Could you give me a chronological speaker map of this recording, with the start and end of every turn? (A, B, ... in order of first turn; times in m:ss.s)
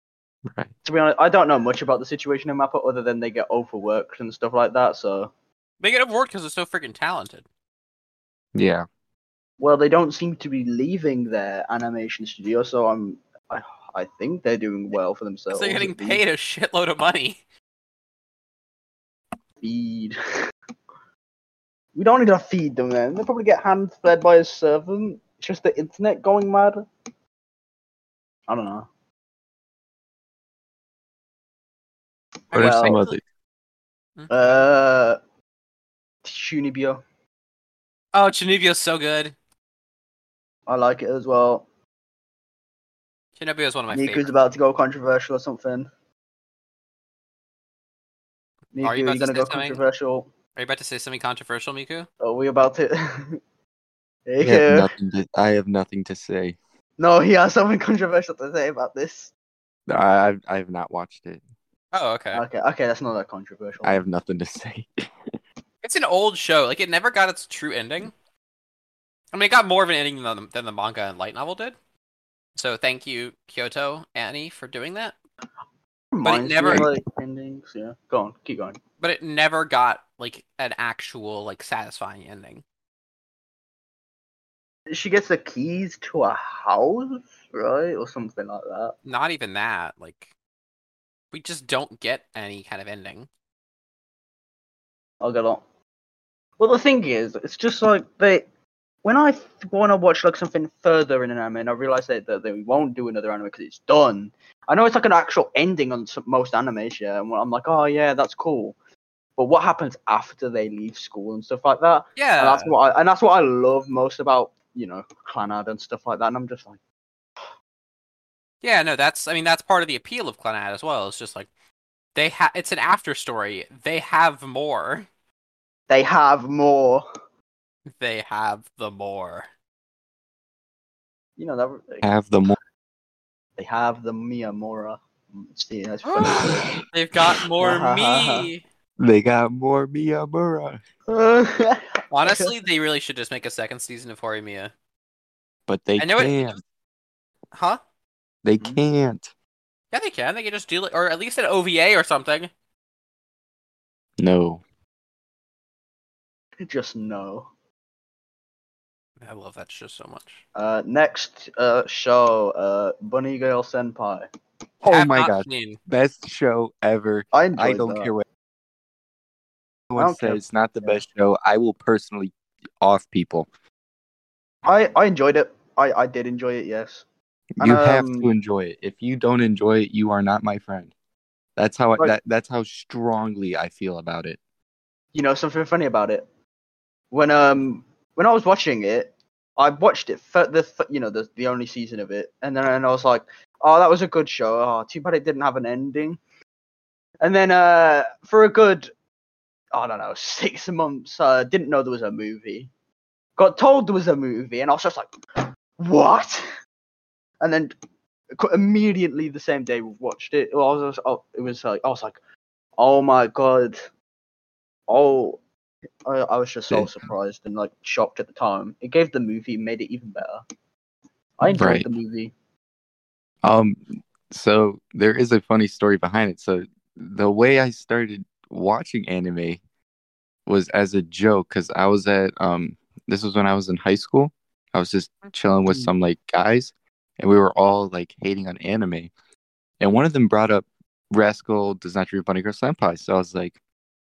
0:00.5-0:00.7 A
0:00.8-0:05.3 B
0:05.8-0:07.4 C
0:08.6-0:08.9 A
0:09.6-0:16.2 B
0:15.5-0:17.4 C
0:19.6-0:20.2 B
0:22.0-0:26.9 B
0:28.5-0:28.9 B
0:32.5-0:33.2 C
0:32.5-0:33.2 A
0:32.5-0:33.0 B
0:34.2-0:34.5 C
0:34.3-0:35.2 B
0:36.2-0:37.0 B
0:38.1-0:39.4 C
0:40.7-0:41.6 B
0:43.4-0:44.3 C
0:43.9-0:45.9 B
0:48.7-0:50.3 B
0:48.8-0:49.8 C
0:50.6-0:52.1 C
0:52.2-0:53.4 B
0:54.3-0:54.9 B
0:54.4-0:56.6 A
0:57.0-0:59.3 B
0:59.9-1:01.4 A
1:01.9-1:02.4 C
1:02.3-1:04.0 B
1:03.8-1:05.0 A
1:05.8-1:08.1 C
1:09.3-1:11.8 C
1:12.6-1:15.2 C
1:16.1-1:18.8 B
1:16.2-1:16.9 C
1:19.0-1:22.6 C
1:24.9-1:29.0 B
1:29.0-1:30.3 C
1:31.3-1:33.3 C
1:35.2-1:35.6 B
1:36.6-1:38.4 B
1:39.0-1:48.8 B
1:49.4-1:56.8 B
1:52.2-1:52.7 C
1:58.6-2:01.5 C
2:02.2-2:05.1 C
2:05.9-2:07.0 B
2:08.0-2:09.5 C
2:11.4-2:12.1 B
2:12.0-2:12.6 A
2:13.6-2:16.8 B
2:16.0-2:18.6 C
2:17.6-2:18.5 B
2:19.0-2:20.8 A
2:21.1-2:22.5 B
2:22.1-2:24.7 C
2:25.7-2:26.6 A
2:26.0-2:26.6 C
2:27.5-2:27.8 C
2:28.4-2:29.3 A
2:29.9-2:32.5 C
2:34.2-2:34.6 A
2:36.6-2:37.5 B
2:39.2-2:40.4 C
2:40.6-2:44.3 B
2:44.8-2:48.2 A
2:44.8-2:45.8 C
2:47.3-2:48.1 B
2:49.9-2:53.5 A
2:50.0-2:51.0 B
2:54.6-2:57.1 B
2:57.6-3:00.9 A
2:57.6-2:58.3 B
3:01.6-3:04.4 A
3:05.1-3:06.3 B
3:07.1-3:16.2 B
3:17.2-3:18.9 B
3:19.7-3:22.7 B
3:23.4-3:25.1 B
3:25.8-3:26.4 B
3:27.4-3:27.7 B
3:28.4-3:32.2 B
3:32.8-3:33.8 B
3:34.9-3:35.4 B
3:36.0-3:40.4 B
3:41.4-3:42.3 B
3:41.5-3:41.9 A
3:43.4-3:49.6 A
3:50.5-3:59.1 A
3:59.8-4:03.6 A